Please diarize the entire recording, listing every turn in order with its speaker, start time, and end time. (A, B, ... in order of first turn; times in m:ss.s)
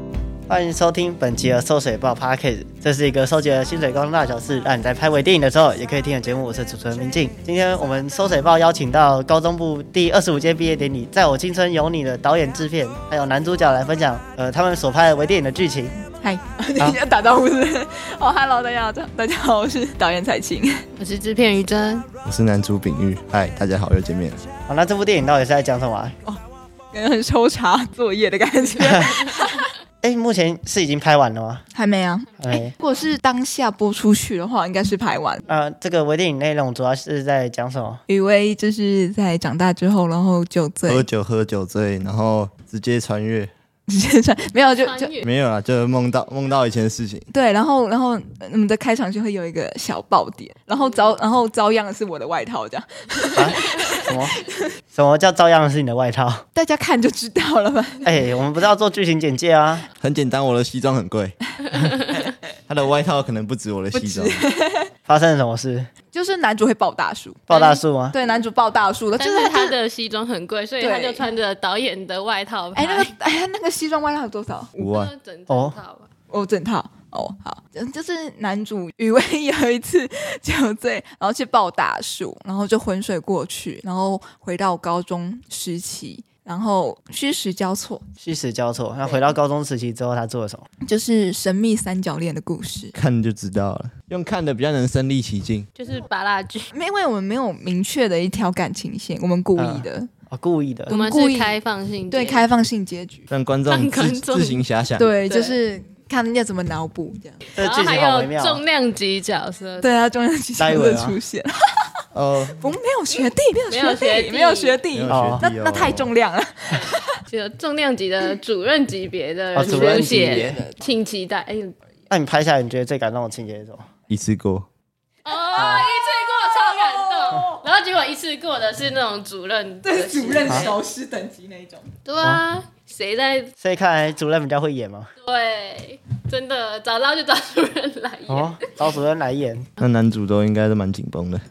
0:00.5-0:16.0 A
0:16.2-0:20.8 B
0:21.0-0:22.1 C
0:22.2-0:24.4 D
0:24.7-0:26.2 A
0:26.9-0:29.7 B
0:28.8-0:29.2 A
0:30.0-0:31.6 A
0:31.7-0:35.4 B
0:32.4-0:32.7 A
0:35.5-0:38.0 A
0:38.1-0:41.1 B
0:40.9-0:43.5 D
0:43.9-0:45.1 B
0:44.8-0:45.3 C
0:45.2-0:47.2 D
0:47.3-0:54.7 B
0:53.4-0:54.4 A
0:54.9-0:56.4 A
0:56.5-0:58.2 B
0:58.0-0:59.9 A
1:00.0-1:01.4 D
1:01.7-1:02.2 C
1:02.7-1:04.4 D
1:03.9-1:04.9 B
1:05.0-1:05.9 A
1:06.1-1:09.8 B
1:07.5-1:08.2 A
1:09.2-1:13.1 C
1:10.8-1:11.2 B
1:12.7-1:14.8 B
1:14.8-1:15.1 D
1:14.8-1:16.1 C
1:15.5-1:15.8 A
1:16.3-1:28.1 B
1:28.2-1:30.6 A
1:30.8-1:32.9 B
1:32.9-1:35.7 D
1:35.8-1:36.7 C
1:36.7-1:40.1 B
1:39.6-1:40.9 A
1:40.9-1:41.6 B
1:40.9-1:42.4 C
1:42.1-1:43.3 B
1:43.3-1:45.1 D
1:43.6-1:44.6 C
1:45.0-1:47.4 B
1:45.2-1:45.6 C
1:47.5-1:48.6 A
1:47.5-1:49.9 C
1:49.8-1:57.2 B
1:50.6-1:51.2 A
1:52.1-1:52.7 D
1:53.7-1:54.8 C
1:54.9-1:56.1 D
1:55.1-1:55.5 A
1:56.8-2:01.7 C
1:59.5-2:00.6 A
2:00.4-2:00.7 B
2:02.1-2:03.8 A
2:04.1-2:04.7 D
2:05.2-2:10.8 C
2:05.5-2:05.9 A
2:06.4-2:07.6 B
2:09.8-2:11.9 B
2:10.4-2:10.7 A
2:12.0-2:13.5 C
2:13.6-2:15.1 A
2:15.2-2:18.9 C
2:18.3-2:19.7 A
2:19.8-2:21.4 D